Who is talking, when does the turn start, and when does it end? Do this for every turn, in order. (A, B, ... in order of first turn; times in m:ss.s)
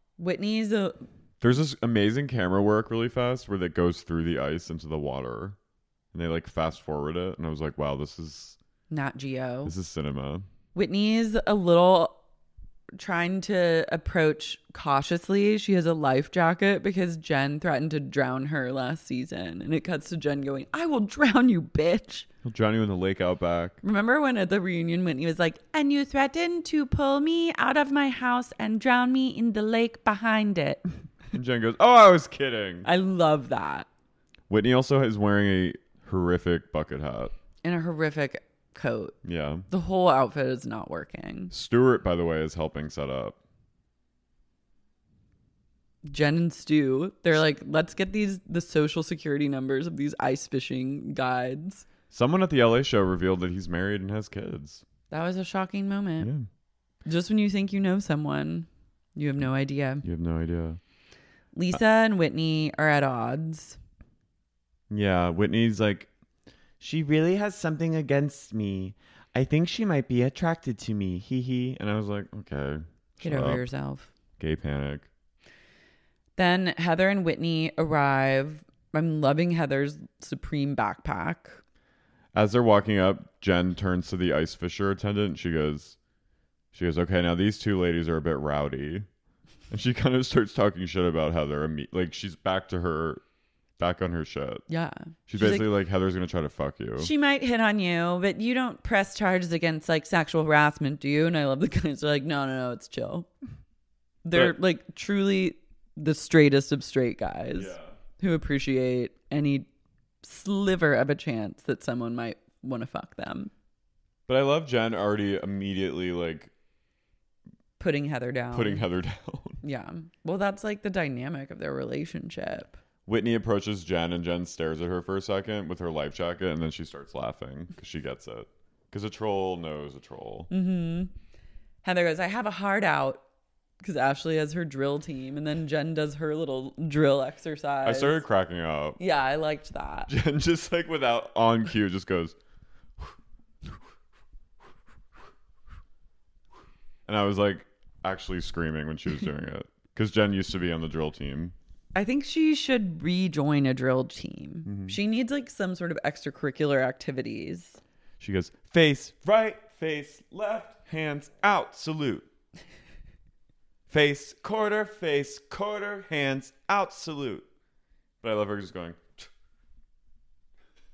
0:00.2-0:01.0 A
0:01.4-0:05.6 B
0:06.1-0:08.6 B
0:08.9-0:09.7 A
0:09.6-0:10.4 B
0:10.7-0:12.2 A
0:13.0-0:22.3 A
0:22.4-0:23.8 B
0:23.8-0:30.8 A
0:31.3-0:32.9 B
0:32.8-0:33.9 A
0:34.5-0:37.3 B
0:37.6-0:39.2 A
0:39.2-0:39.7 B
0:39.7-0:41.5 A
0:41.5-0:43.4 B
0:46.0-0:51.8 A
0:52.1-0:54.8 B
0:55.1-0:56.3 A
0:56.2-0:56.4 B
0:57.0-1:00.0 A
1:00.0-1:00.8 B
1:01.5-1:03.8 A
1:04.9-1:06.1 B
1:06.8-1:13.6 B
1:13.2-1:14.1 A
1:14.4-1:15.1 B
1:16.4-1:21.6 A
1:22.3-1:26.0 B
1:26.7-1:29.0 B
1:29.7-1:33.2 B
1:33.8-1:34.6 B
1:34.7-1:35.7 A
1:35.3-1:37.1 B
1:37.0-1:43.3 A
1:44.2-1:49.7 A
1:47.5-1:47.9 B
1:50.2-1:53.5 A
1:54.3-1:56.5 B
1:57.8-1:58.8 A
1:58.5-1:59.6 B
1:59.6-2:02.7 A
2:03.0-2:10.5 B
2:10.5-2:11.1 A
2:11.8-2:13.2 A
2:13.8-2:18.2 A
2:17.8-2:19.0 B
2:19.0-2:20.1 A
2:20.1-2:22.3 B
2:27.1-2:31.5 B
2:31.9-2:37.8 A
2:34.6-2:35.0 B
2:38.2-2:42.3 B
2:43.9-2:47.4 B
2:48.2-2:49.3 B